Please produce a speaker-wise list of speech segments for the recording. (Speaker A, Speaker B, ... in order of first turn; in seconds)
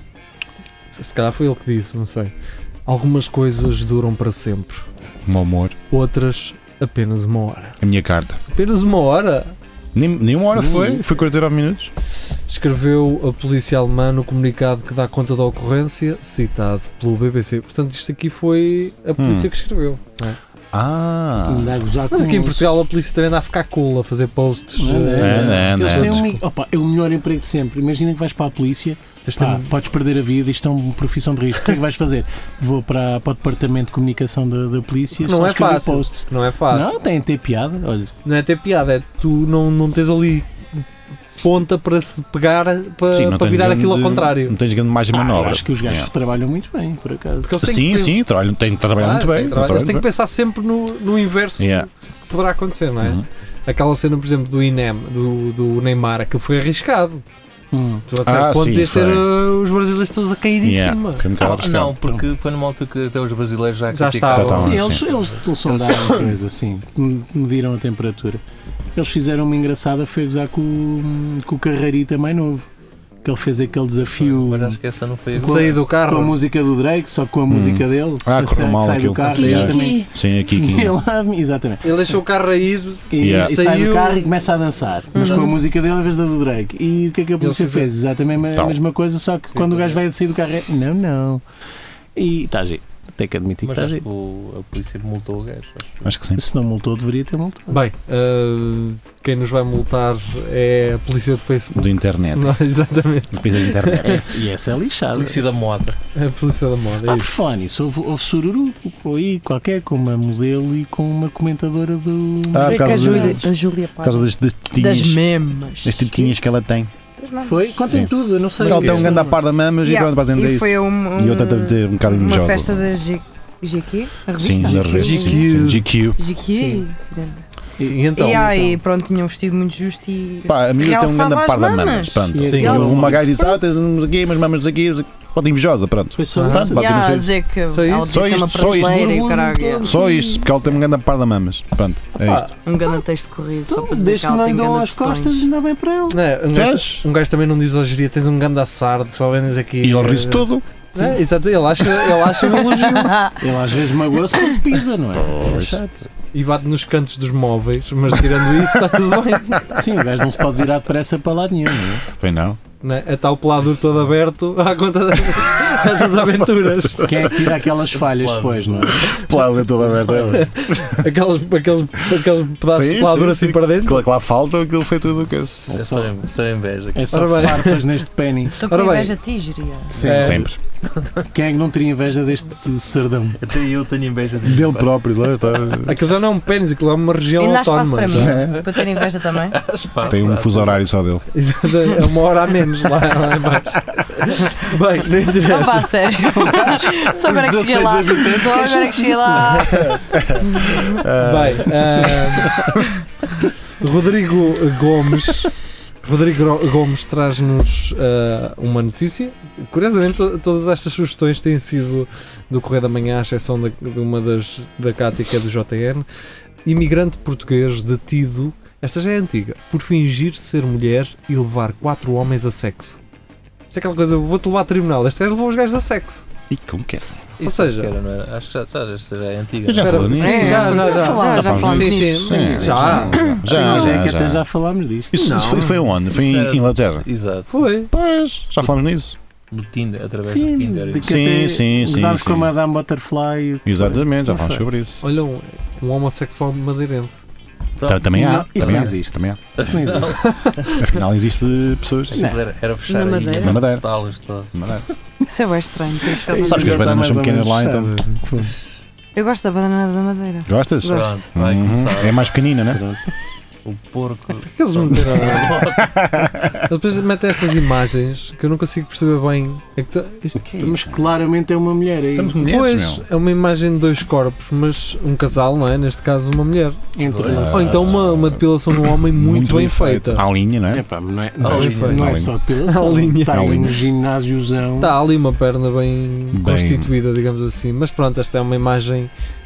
Speaker A: 0.9-2.3, 2.9-4.8, 5.9-7.8, 8.5-9.6, 12.5-20.4, 22.1-26.4, 29.2-29.7, 35.2-36.9, 38.2-40.8, 41.4-44.5, 47.4-48.2, 49.0-57.2, 58.1-61.2, 63.9-64.8, 75.3-76.3, 81.8-84.3, 87.4-87.9, 97.7-104.2, 106.1-107.3, 118.6-119.2, 125.0-125.8, 127.8-128.8, 132.5-132.8, 136.3-136.7, 137.7-138.2, 142.2-142.5, 146.1-153.2, 156.3-159.8, 162.8-167.0, 170.2-174.0, 177.1-177.8, 178.6-179.2, 180.0-180.5, 185.8-188.4, 191.3-195.9, 201.2-202.5, 203.8-205.5, 206.0-216.1, 216.6-223.0, 223.7-226.2, 227.4-227.9, 229.8-233.2, 235.1-235.8, 237.5-237.9, 245.0-247.2, 250.4-250.8, 264.5-265.6, 266.7-270.5, 272.4-280.2, 281.5-282.1, 282.6-283.6, 284.8-289.1
Speaker B: 5.2-5.8, 7.8-8.4, 9.9-11.9, 19.2-19.5, 20.7-21.8, 25.2-26.2, 43.1-46.1, 47.6-50.1, 51.6-51.9, 53.0-53.2, 58.2-59.3, 60.6-62.0, 64.3-65.0, 77.5-81.0, 83.2-83.6, 96.0-96.4, 101.7-102.5, 103.3-104.2, 112.5-116.9, 117.9-122.8, 124.3-126.2, 130.5-137.3, 138.1-139.3, 139.8-142.5, 146.5-147.0, 149.8-150.7, 155.2-155.8, 162.1-162.6, 166.1-167.4, 169.1-171.0, 172.7-175.7, 180.0-180.6, 184.4-186.0, 188.1-188.7, 190.0-191.2, 200.1-202.1, 226.5-227.1, 229.6-234.4, 235.1-237.1, 237.9-239.2, 241.0-242.5, 243.6-245.0, 247.8-249.7, 250.7-252.3, 253.3-253.9, 254.5-254.8, 256.4-257.9, 260.4-262.8, 265.6-266.6, 270.4-271.0, 272.1-273.0, 277.2-280.8, 281.4-282.3, 283.3-283.8, 286.3-286.9
Speaker C: 10.5-11.1, 21.5-22.7, 24.8-38.1, 45.1-47.5, 57.7-58.0, 64.6-68.4, 68.9-72.6, 73.2-74.8, 75.3-81.9, 83.1-91.4, 92.2-94.0, 96.3-97.8, 104.0-105.4, 107.0-113.5, 117.4-119.4, 126.5-126.8, 127.8-128.8, 132.3-133.3, 136.1-136.8, 139.1-140.0, 143.7-146.2, 153.4-156.1, 159.7-162.0, 167.0-169.1, 175.7-176.1, 176.9-178.6, 179.9-180.5, 181.3-183.4, 196.3-199.9, 202.4-202.7, 232.4-235.3, 240.2-244.7, 248.1-250.2, 252.1-252.4, 256.1-258.6, 262.7-263.1, 270.6-272.4, 276.9-278.0, 280.7-285.0
Speaker D: 61.4-66.3, 74.2-75.8, 85.2-85.4, 89.6-89.9, 93.6-96.0, 105.1-106.0, 167.9-168.9, 175.7-177.2, 183.4-185.0, 189.3-190.8, 227.4-231.2, 236.1-237.5, 239.5-241.2, 247.8-248.1, 249.6-250.3, 252.1-254.5, 256.4-257.0, 260.9-262.4, 263.6-266.1, 277.1-277.6, 281.4-282.1
Speaker E: 79.3-80.0, 85.1-85.5, 112.6-116.3, 117.2-118.1, 119.8-125.5, 126.2-127.4, 128.1-133.6, 136.7-140.5, 142.6-145.5, 152.5-153.2, 178.6-180.2, 187.4-189.6, 195.4-201.0, 230.1-233.5, 252.9-253.6, 255.3-256.9, 259.1-261.3